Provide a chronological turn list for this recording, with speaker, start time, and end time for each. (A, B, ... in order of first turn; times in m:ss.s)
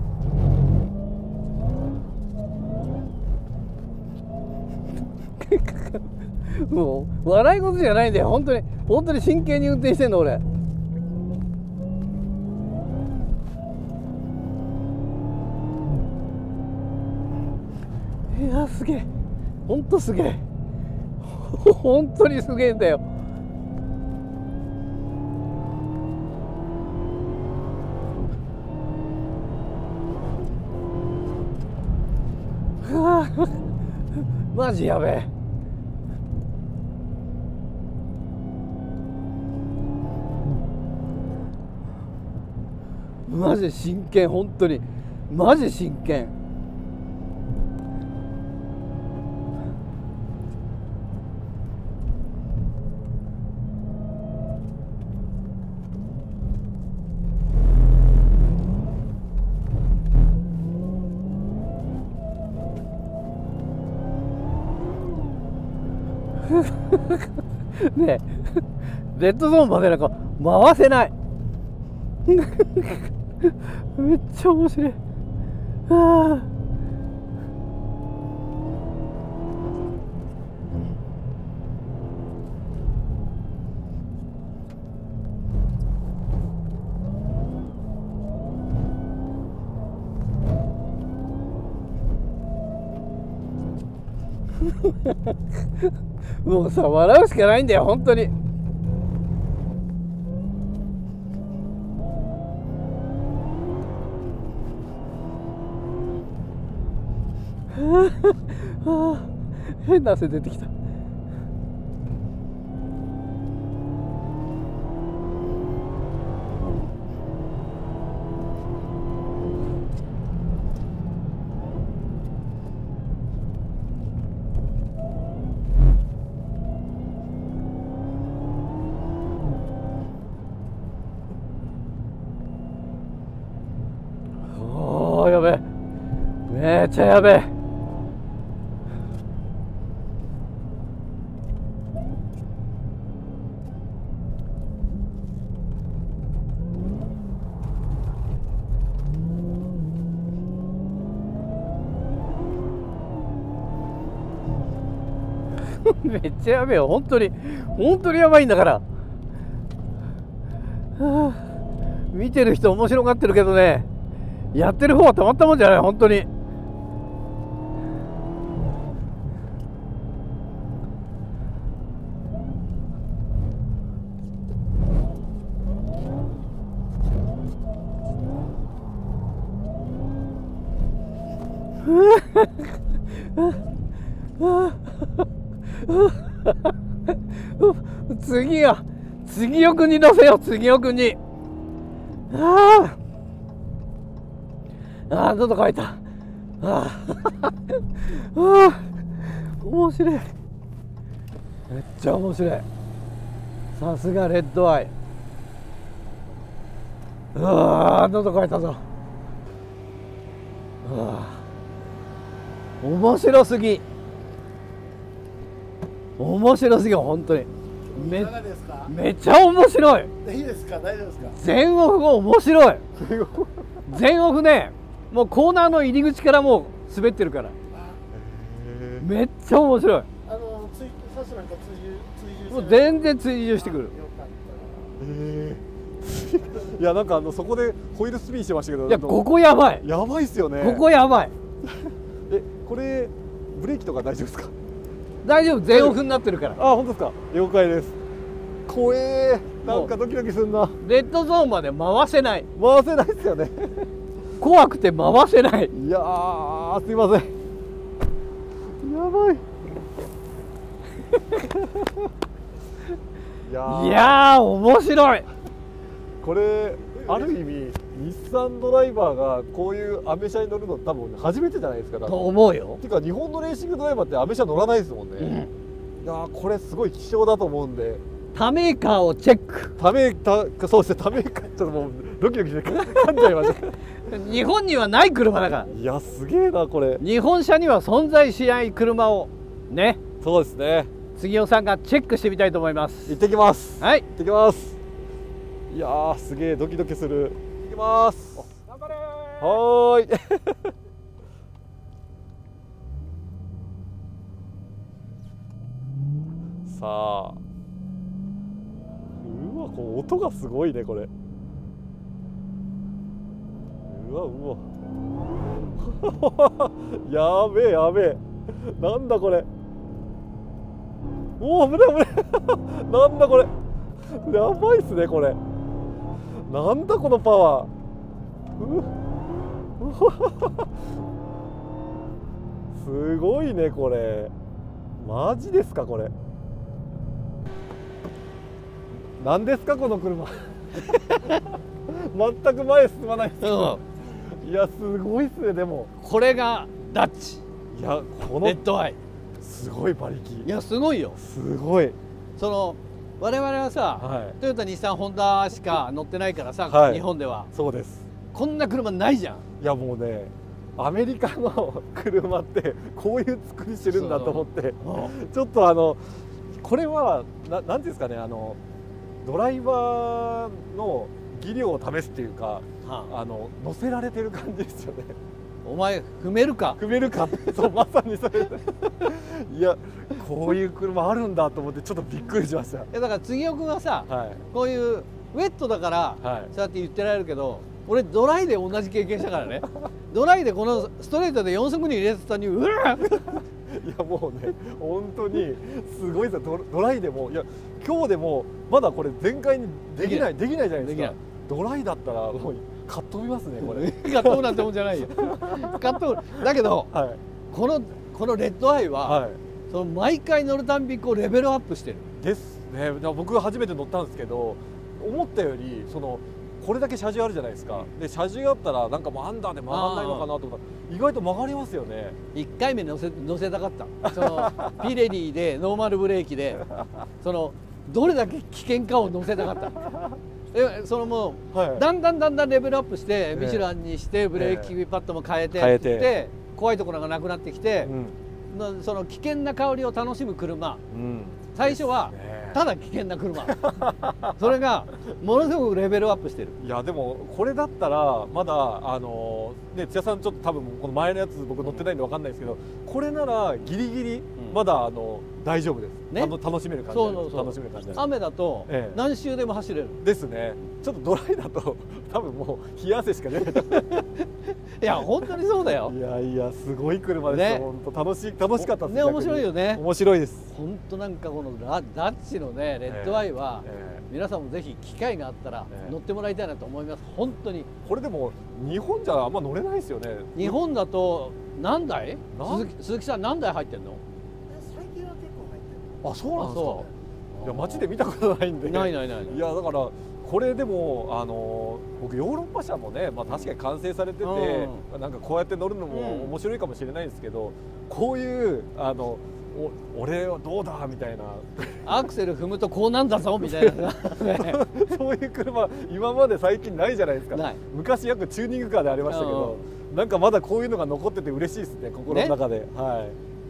0:05.4-0:10.4 A
0:18.3-0:19.1 A
0:19.6-0:20.4 A
0:21.2-0:23.0 A
0:32.8-0:33.6 A
0:34.5-0:35.3 A
0:43.2-0:46.3 A
1:06.5-1:11.1 A
1:12.3-1:15.0 A
1:15.9-1:16.5 A
1:34.6-1:35.9 A
1:36.4-1:38.3 A
1:47.7-1:50.7 A
2:14.4-2:15.6 A
2:16.5-2:17.5 A
2:35.6-2:38.8 A
2:41.0-2:41.4 A
2:42.1-2:43.9 A
2:44.5-2:46.3 A
3:01.8-3:03.6 A
3:04.4-3:11.2 A
3:12.3-3:13.0 A
3:15.1-3:16.0 A
3:16.6-3:20.3 A
3:21.7-3:22.6 A
3:23.7-3:24.9 A
3:27.3-3:28.8 A
3:30.8-3:31.4 A
3:32.8-3:33.8 A
3:36.2-3:40.1 A
3:37.9-3:38.9 B
3:40.2-3:41.4 B
3:41.3-3:42.8 A
3:43.0-3:43.8 C
3:43.9-3:47.6 A
3:48.1-3:49.1 C
3:49.0-3:50.1 A
3:50.2-3:54.9 B
3:52.5-3:53.9 A
3:55.0-3:59.2 C
3:58.9-3:59.8 A
3:59.8-4:00.8 C
4:00.6-4:01.3 A
4:02.3-4:04.5 C
4:05.2-4:06.6 A
4:05.7-4:06.0 C
4:06.6-4:08.0 C
4:08.7-4:10.8 C
4:09.6-4:09.9 A
4:10.8-4:12.5 A
4:12.6-4:13.9 C
4:14.4-4:15.7 A
4:15.7-4:17.3 C
4:18.8-4:19.4 C
4:23.4-4:24.2 C
4:23.6-4:25.3 A
4:26.2-4:35.3 C
4:32.0-4:32.8 A
4:35.2-4:35.5 A
4:36.0-4:38.0 C
4:38.3-4:39.8 A
4:39.8-4:43.8 C
4:42.9-4:43.2 A
4:44.0-4:45.7 A
4:45.7-4:47.0 C
4:47.0-4:50.0 A
4:50.2-4:50.9 C
4:51.1-4:53.2 A
4:53.1-4:54.8 C
4:53.8-4:54.0 A
4:55.7-4:58.5 C
4:58.6-4:59.5 A
4:59.4-5:00.7 C
5:06.6-5:07.4 C
5:09.2-5:11.1 C
5:13.8-5:14.6 C
5:15.8-5:19.5 C
5:21.4-5:23.5 C
5:24.1-5:25.4 C
5:26.4-5:27.7 C
5:28.6-5:28.9 C
5:29.8-5:30.6 C
5:32.7-5:34.3 C
5:35.0-5:36.1 C
5:39.2-5:45.9 C
5:43.4-5:43.8 A
5:46.0-5:47.4 A
5:47.7-5:48.6 C
5:48.4-5:49.0 A
5:49.4-5:50.5 C
5:50.4-5:51.2 A
5:51.2-5:52.0 C
5:52.4-5:57.5 A
5:54.0-5:54.4 C
5:56.7-5:58.1 C
5:58.3-5:59.4 A
5:59.6-6:08.6 C
6:03.8-6:05.1 A
6:09.2-6:15.2 C
6:12.8-6:13.1 A
6:15.6-6:16.8 A
6:16.8-6:22.9 C
6:22.9-6:33.4 A
6:24.1-6:24.4 C
6:26.2-6:26.5 C
6:33.1-6:47.2 C
6:40.0-6:41.2 A
6:43.6-6:46.9 A
6:47.5-6:52.1 A
6:49.0-6:49.4 C
6:52.2-7:02.2 C
6:59.7-7:00.3 A
7:02.3-7:06.6 A
7:04.0-7:04.9 C
7:06.6-7:07.0 C
7:07.2-7:09.9 A
7:09.6-7:10.2 C
7:10.5-7:17.9 A
7:11.5-7:11.9 C
7:13.3-7:13.7 C
7:14.3-7:14.7 C
7:15.5-7:16.1 C
7:17.8-7:18.1 C
7:18.5-7:20.8 A
7:20.9-7:22.6 C
7:21.5-7:26.6 A
7:23.4-7:24.5 C
7:26.6-7:38.0 C
7:31.6-7:31.9 A
7:36.9-7:40.0 A
7:38.7-7:39.0 C
7:40.0-7:44.0 C
7:43.6-7:44.0 A
7:44.8-7:45.9 A
7:45.8-7:50.5 C
7:47.2-7:47.7 A
7:48.5-7:49.8 A
7:50.5-7:57.7 A
7:52.8-7:54.0 C
7:55.7-7:56.0 C
7:57.8-8:00.6 C
8:00.3-8:04.0 A
8:02.3-8:02.7 C
8:04.6-8:05.6 B
8:06.0-8:06.9 C
8:06.4-8:07.9 A
8:07.4-8:22.0 C
8:08.6-8:09.4 A
8:14.2-8:14.8 A
8:15.9-8:16.3 A
8:21.8-8:24.7 A
8:23.4-8:33.2 C
8:27.3-8:27.6 A
8:29.0-8:29.6 A
8:32.1-8:32.4 A